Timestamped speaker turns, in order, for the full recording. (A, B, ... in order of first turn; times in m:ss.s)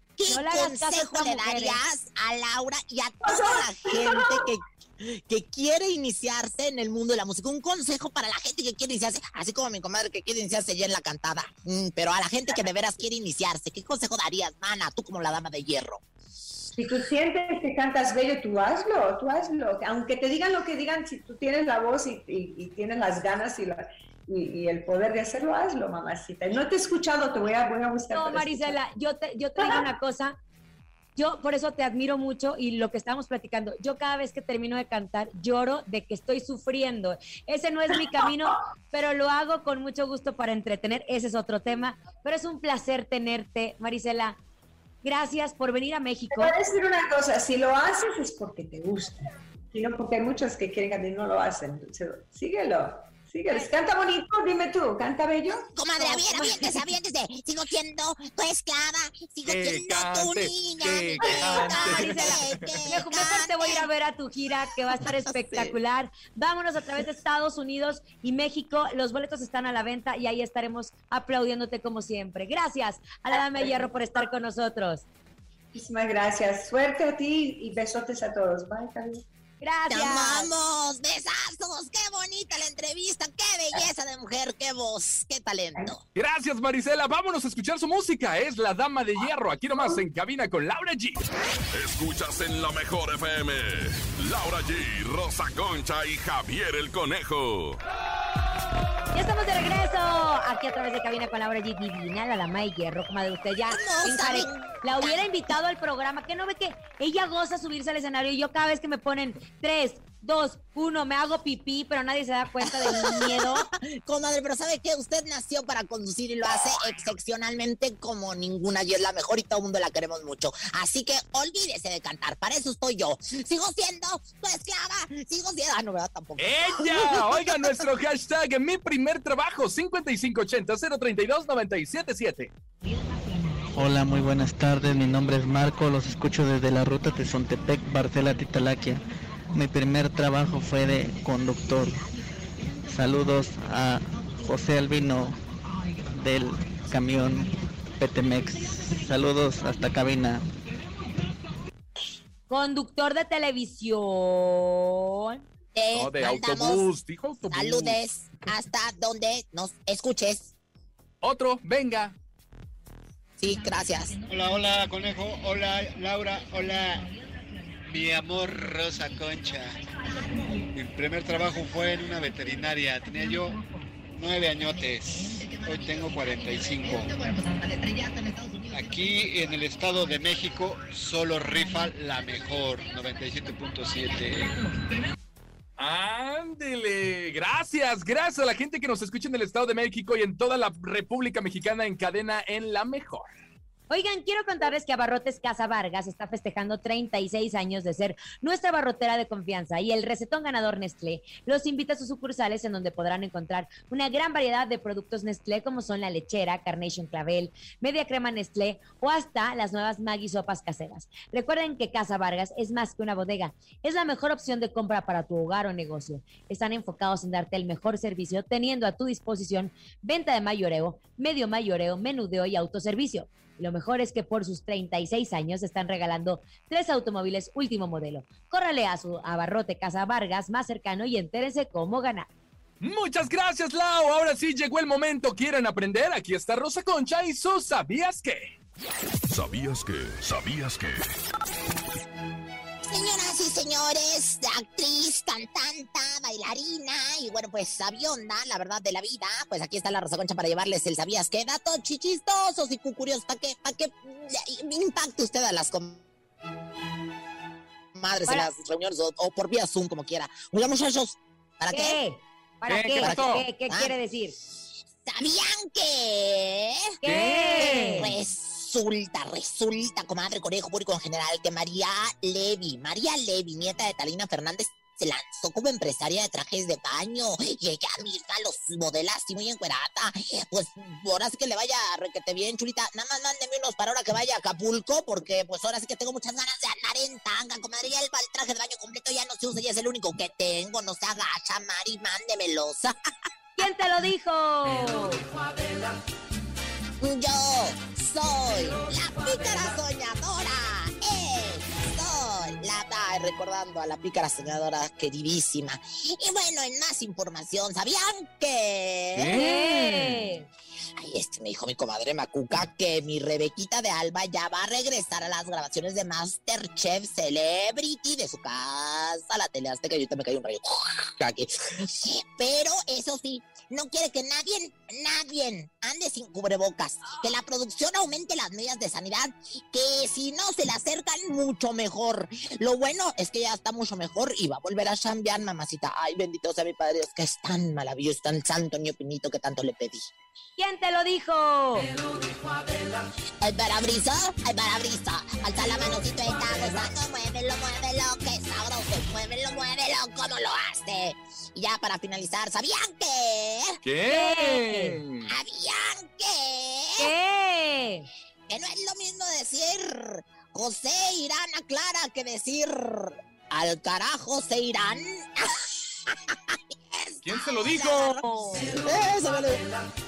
0:00.2-0:16.0 A
0:00.3-0:01.8 B
0:03.3-0:04.5 C
0:16.8-0:28.8 C
0:28.1-0:30.4 B
0:31.2-0:44.4 B
0:45.0-0:46.6 B
0:46.3-0:55.7 C
0:55.7-1:03.9 A
0:56.0-0:56.7 B
0:59.4-1:02.7 D
1:01.6-1:15.0 B
1:05.3-1:05.8 A
1:15.7-1:19.2 C
1:19.6-1:20.5 B
1:19.9-1:26.0 A
1:26.2-1:31.2 D
1:31.7-1:37.8 E
1:39.1-1:53.7 B
1:43.7-1:45.4 A
1:52.6-2:07.9 A
2:06.4-2:12.5 D
2:13.7-2:19.0 F
2:19.5-2:22.0 F
2:22.9-2:25.4 F
2:26.1-2:30.4 F
2:32.5-2:35.4 B
2:35.8-2:36.9 A
2:36.0-2:38.0 D
2:37.5-2:40.5 A
2:41.2-2:42.1 D
2:43.4-2:44.2 A
2:44.2-2:47.1 G
2:47.8-2:49.9 G
2:50.7-2:53.6 G
2:54.2-2:57.2 G
2:55.3-2:55.9 A
2:56.9-2:59.0 A
2:58.7-3:04.7 G
3:05.8-3:13.3 D
3:13.9-3:52.3 B
3:52.8-3:58.5 D
3:59.3-4:01.0 E
4:02.9-4:16.0 A
4:18.0-4:22.0 A
4:21.7-4:24.4 B
4:22.7-4:23.5 D
4:23.0-4:24.0 A
4:25.0-4:26.9 A
4:27.0-4:28.1 B
4:27.1-4:28.1 D
4:27.5-4:52.9 A
4:53.6-4:55.2 B
4:57.0-5:09.4 A
5:09.2-5:10.2 D
5:09.3-5:10.5 B
5:11.0-5:40.1 A
5:40.6-5:41.9 B
5:43.4-5:53.8 A
5:53.8-5:55.3 D
5:54.1-5:55.0 B
5:55.3-5:57.1 A
5:57.0-5:58.1 B
5:58.5-6:09.6 A
6:07.2-6:08.3 D